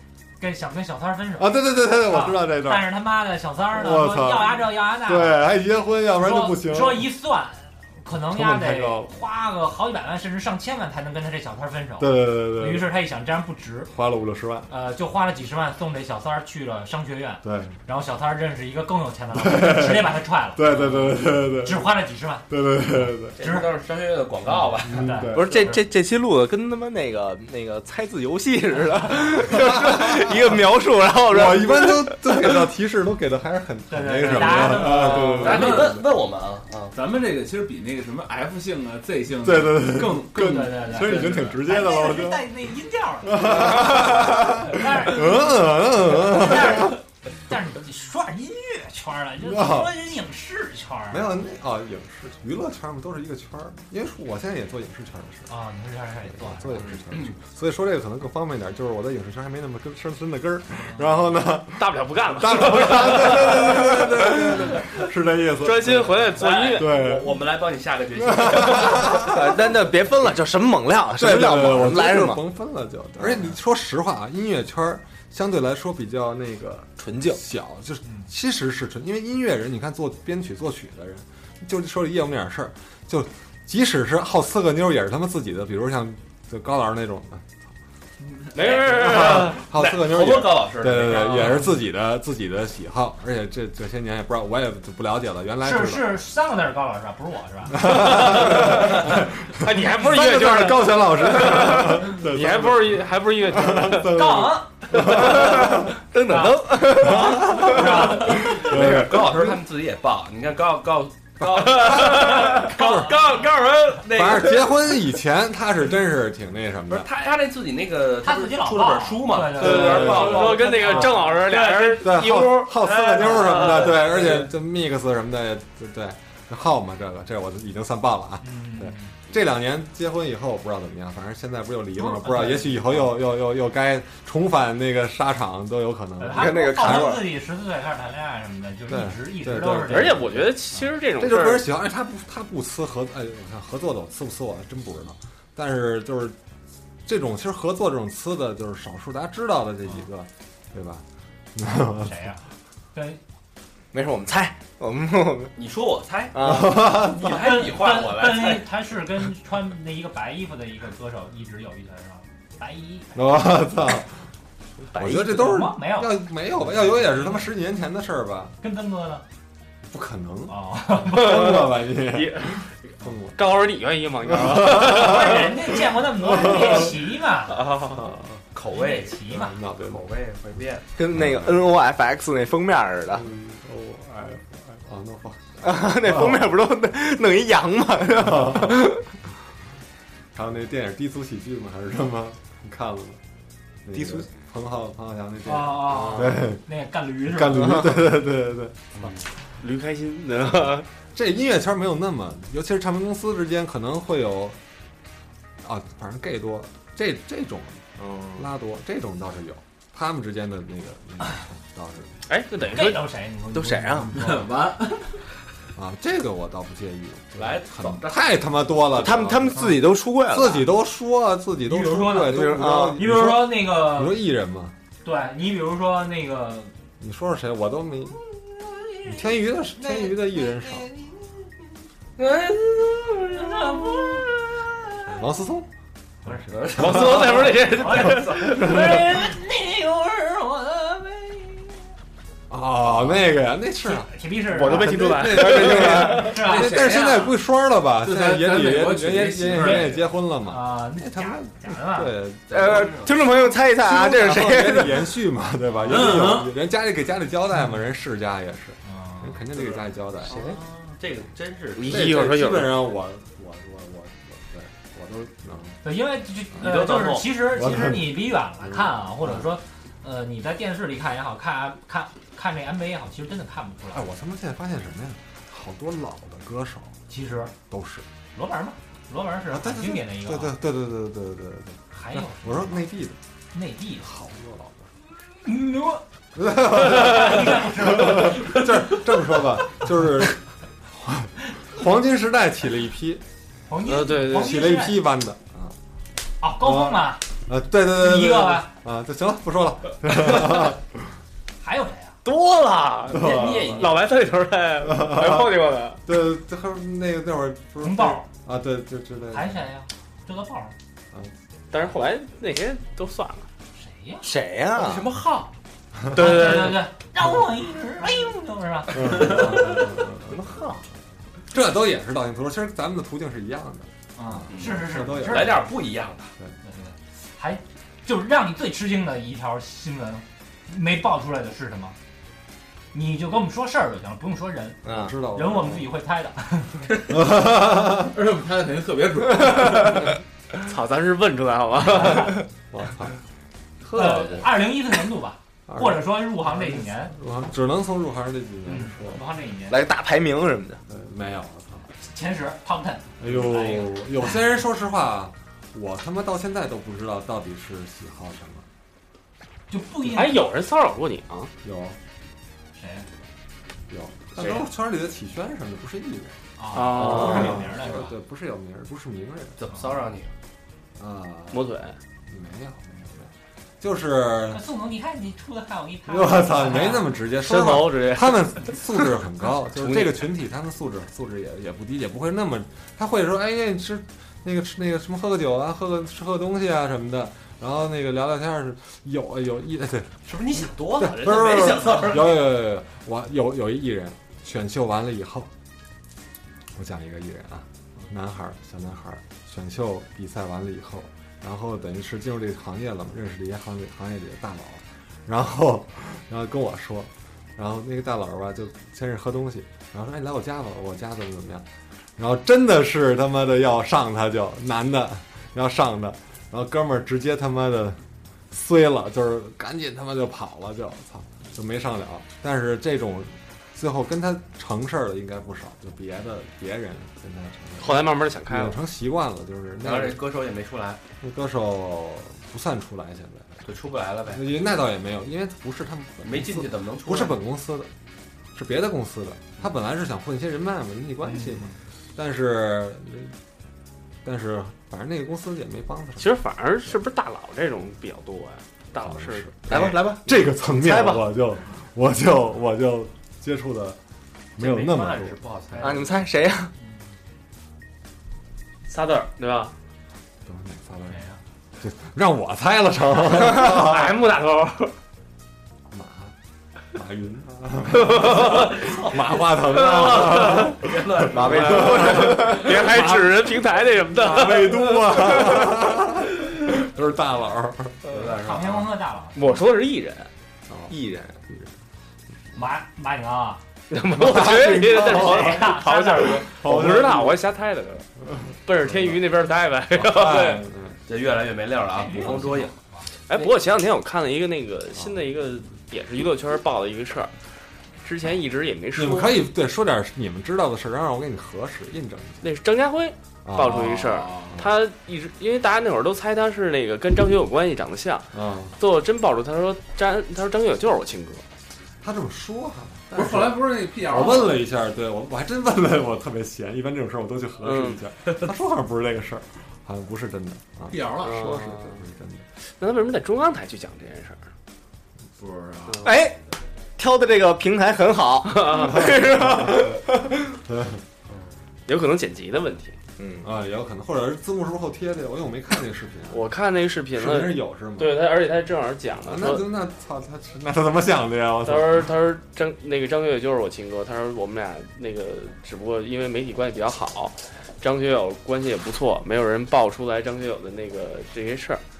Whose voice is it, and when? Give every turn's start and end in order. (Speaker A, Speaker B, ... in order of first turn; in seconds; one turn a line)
Speaker A: 0.4-5.5
Speaker B: 1.4-3.0
Speaker B: 3.7-7.1
Speaker A: 6.2-13.9
Speaker B: 8.1-9.1
Speaker B: 12.0-12.9
Speaker B: 13.9-14.7
Speaker A: 14.7-22.4
Speaker B: 17.4-17.8
Speaker B: 19.3-21.9
Speaker B: 22.5-23.4
Speaker A: 23.3-23.7
Speaker C: 23.4-25.2
Speaker A: 24.5-25.8
Speaker B: 24.9-25.6
Speaker D: 25.3-32.5
Speaker B: 31.3-36.0
Speaker A: 33.9-35.5
Speaker C: 34.9-36.9
Speaker E: 35.5-36.0
Speaker E: 36.9-41.3
Speaker B: 39.4-42.5
Speaker A: 40.3-51.3
Speaker B: 43.2-47.0
Speaker B: 49.4-50.0
Speaker B: 51.1-55.5
Speaker A: 55.5-57.0
Speaker B: 56.3-67.3
Speaker A: 60.8-61.0
Speaker F: 61.8-65.0
Speaker F: 65.6-66.9
Speaker C: 66.3-69.3
Speaker B: 68.2-69.5
Speaker D: 69.1-72.4
Speaker B: 71.2-87.5
Speaker D: 77.0-77.4
Speaker F: 88.5-89.6
Speaker C: 88.5-91.6
Speaker B: 88.6-96.2
Speaker A: 95.6-98.3
Speaker B: 97.7-105.9
Speaker F: 97.9-104.2
Speaker A: 104.0-104.7
Speaker F: 105.0-105.8
Speaker D: 105.2-108.0
Speaker A: 106.3-108.5
Speaker B: 107.0-109.6
Speaker C: 108.0-115.0
Speaker B: 111.4-113.1
Speaker F: 111.8-112.6
Speaker B: 114.0-117.1
Speaker C: 116.9-122.1
Speaker A: 118.2-121.5
Speaker F: 119.5-124.3
Speaker B: 119.6-121.2
Speaker B: 122.0-137.1
Speaker C: 122.8-124.5
Speaker A: 128.4-129.1
Speaker A: 132.0-133.2
Speaker A: 136.2-140.3
Speaker D: 136.3-137.3
Speaker B: 138.9-146.4
Speaker F: 139.9-141.7
Speaker B: 147.1-152.1
Speaker A: 151.9-152.4
Speaker A: 152.9-153.2
Speaker D: 153.9-155.5
Speaker C: 155.6-158.7
Speaker D: 156.3-156.9
Speaker B: 156.4-157.6
Speaker A: 157.2-163.4
Speaker B: 163.1-164.1
Speaker D: 164.9-165.4
Speaker B: 164.9-168.6
Speaker A: 165.1-166.2
Speaker A: 167.0-167.4
Speaker A: 168.6-169.2
Speaker B: 169.8-173.4
Speaker A: 170.5-171.5
Speaker F: 171.1-172.7
Speaker F: 173.3-175.6
Speaker B: 174.2-175.5
Speaker A: 174.7-177.7
Speaker B: 176.1-176.8
Speaker F: 177.5-178.0
Speaker B: 177.8-178.4
Speaker C: 178.5-180.9
Speaker A: 178.7-179.5
Speaker B: 179.3-180.0
Speaker D: 181.0-183.3
Speaker B: 181.1-181.6
Speaker B: 183.2-186.5
Speaker D: 185.6-189.0
Speaker B: 188.2-188.9
Speaker B: 190.3-193.2
Speaker B: 193.8-196.6
Speaker A: 195.4-197.9
Speaker B: 197.2-199.1
Speaker C: 199.0-199.2
Speaker F: 199.6-200.8
Speaker B: 201.1-204.6
Speaker B: 205.6-207.8
Speaker B: 208.3-212.1
Speaker F: 212.3-213.1
Speaker A: 212.7-214.2
Speaker D: 213.5-214.2
Speaker E: 214.1-215.2
Speaker B: 215.8-224.8
Speaker C: 217.3-218.2
Speaker D: 219.0-220.7
Speaker A: 221.6-224.2
Speaker D: 222.3-223.0
Speaker A: 225.0-226.7
Speaker B: 227.0-228.2
Speaker A: 228.6-229.0
Speaker B: 229.0-230.9
Speaker A: 229.7-231.3
Speaker C: 232.2-234.3
Speaker A: 233.3-234.2
Speaker B: 235.1-235.7
Speaker B: 236.2-237.5
Speaker C: 236.5-238.6
Speaker F: 236.7-239.2
Speaker A: 237.6-241.8
Speaker B: 242.5-252.9
Speaker A: 243.8-245.0
Speaker F: 244.5-246.3
Speaker D: 244.9-246.0
Speaker A: 245.8-247.0
Speaker E: 248.0-250.0
Speaker A: 249.5-252.1
Speaker C: 252.5-253.2
Speaker D: 252.5-255.1
Speaker B: 253.6-260.6
Speaker E: 255.9-256.6
Speaker A: 258.9-259.4
Speaker C: 259.6-262.1
Speaker F: 261.8-262.8
Speaker B: 261.8-265.8
Speaker A: 265.8-274.1
Speaker C: 266.6-267.4
Speaker B: 267.4-269.5
Speaker B: 273.9-277.0
Speaker A: 277.1-277.5
Speaker B: 277.7-278.1
Speaker A: 278.3-280.6
Speaker B: 279.5-283.2
Speaker A: 281.9-282.8
Speaker A: 283.5-284.1
Speaker B: 284.0-284.9
Speaker A: 285.3-286.0
Speaker B: 286.3-293.2
Speaker A: 286.6-288.6
Speaker A: 293.7-295.0
Speaker F: 293.8-294.6
Speaker B: 294.2-295.8
Speaker A: 296.4-297.2
Speaker B: 296.6-300.8
Speaker A: 297.9-298.7
Speaker A: 301.6-302.2
Speaker F: 302.2-306.0
Speaker B: 303.1-303.9
Speaker C: 303.1-303.9
Speaker B: 304.9-305.5
Speaker B: 306.1-309.7
Speaker A: 307.8-308.3
Speaker A: 309.3-310.7
Speaker F: 311.7-313.4
Speaker A: 313.8-314.3
Speaker D: 314.2-315.1
Speaker C: 314.7-315.5
Speaker F: 316.1-316.9
Speaker A: 316.1-319.8
Speaker B: 318.9-320.6
Speaker D: 319.3-320.8
Speaker B: 321.5-325.7
Speaker A: 324.1-325.7
Speaker C: 324.5-326.3
Speaker A: 326.6-331.9
Speaker A: 332.9-336.9
Speaker D: 334.8-335.1
Speaker B: 334.9-335.9
Speaker B: 337.1-338.1
Speaker E: 337.9-340.1
Speaker F: 340.6-342.4
Speaker B: 342.7-343.1
Speaker A: 343.9-347.1
Speaker B: 345.7-349.2
Speaker A: 348.7-349.8
Speaker D: 349.7-350.8
Speaker B: 350.9-351.9
Speaker A: 352.0-354.4
Speaker B: 353.2-358.6
Speaker A: 359.7-360.4
Speaker F: 360.0-361.5
Speaker B: 361.6-362.0
Speaker A: 362.7-363.1
Speaker B: 363.9-369.8
Speaker F: 364.4-364.6
Speaker A: 366.6-368.1
Speaker F: 366.7-367.6
Speaker C: 369.6-370.3
Speaker B: 371.0-371.7
Speaker F: 371.5-371.9
Speaker B: 372.3-374.6
Speaker A: 374.5-377.2
Speaker B: 376.1-395.5
Speaker F: 377.4-378.8
Speaker F: 379.8-380.3
Speaker C: 390.2-392.5
Speaker B: 396.7-430.2
Speaker F: 427.8-428.8
Speaker C: 429.8-431.0
Speaker B: 431.2-433.6
Speaker C: 433.6-434.5
Speaker B: 434.3-437.9
Speaker C: 436.2-437.4
Speaker B: 438.5-443.3
Speaker A: 441.3-441.7
Speaker B: 444.2-446.9
Speaker F: 446.2-449.9
Speaker B: 449.0-454.0
Speaker D: 449.7-451.2
Speaker B: 454.6-455.4
Speaker C: 454.6-456.2
Speaker D: 455.8-456.7
Speaker F: 458.9-459.7
Speaker B: 460.4-461.2
Speaker A: 461.1-461.4
Speaker B: 461.8-464.1
Speaker F: 463.3-464.9
Speaker B: 465.9-466.3
Speaker B: 466.9-478.3
Speaker F: 467.9-468.9
Speaker C: 468.1-472.8
Speaker F: 469.8-470.6
Speaker D: 471.3-472.6
Speaker F: 471.6-475.8
Speaker C: 478.1-478.9
Speaker A: 478.3-479.4
Speaker F: 479.3-480.3
Speaker B: 480.7-481.7
Speaker D: 480.9-481.4
Speaker A: 482.5-483.6
Speaker F: 483.9-488.1
Speaker B: 484.1-485.8
Speaker A: 485.0-486.4
Speaker B: 486.5-487.4
Speaker F: 488.6-490.6
Speaker B: 489.9-491.0
Speaker C: 491.1-492.7
Speaker A: 491.9-493.1
Speaker F: 493.3-497.3
Speaker F: 498.0-499.4
Speaker B: 498.9-502.4
Speaker F: 502.4-511.4
Speaker B: 503.4-503.9
Speaker E: 503.6-504.6
Speaker B: 508.3-508.7
Speaker B: 512.0-522.4
Speaker E: 513.1-514.6
Speaker F: 517.6-518.0
Speaker E: 520.9-521.8
Speaker F: 521.2-522.0
Speaker F: 522.7-524.5
Speaker E: 525.4-526.1
Speaker D: 526.0-526.4
Speaker D: 527.0-530.0
Speaker F: 528.5-530.0
Speaker B: 528.9-530.0
Speaker B: 530.6-531.0
Speaker F: 531.9-533.0
Speaker D: 533.2-533.5
Speaker B: 533.4-536.4
Speaker F: 536.3-539.6
Speaker B: 537.1-538.2
Speaker B: 539.2-542.1
Speaker F: 541.6-551.8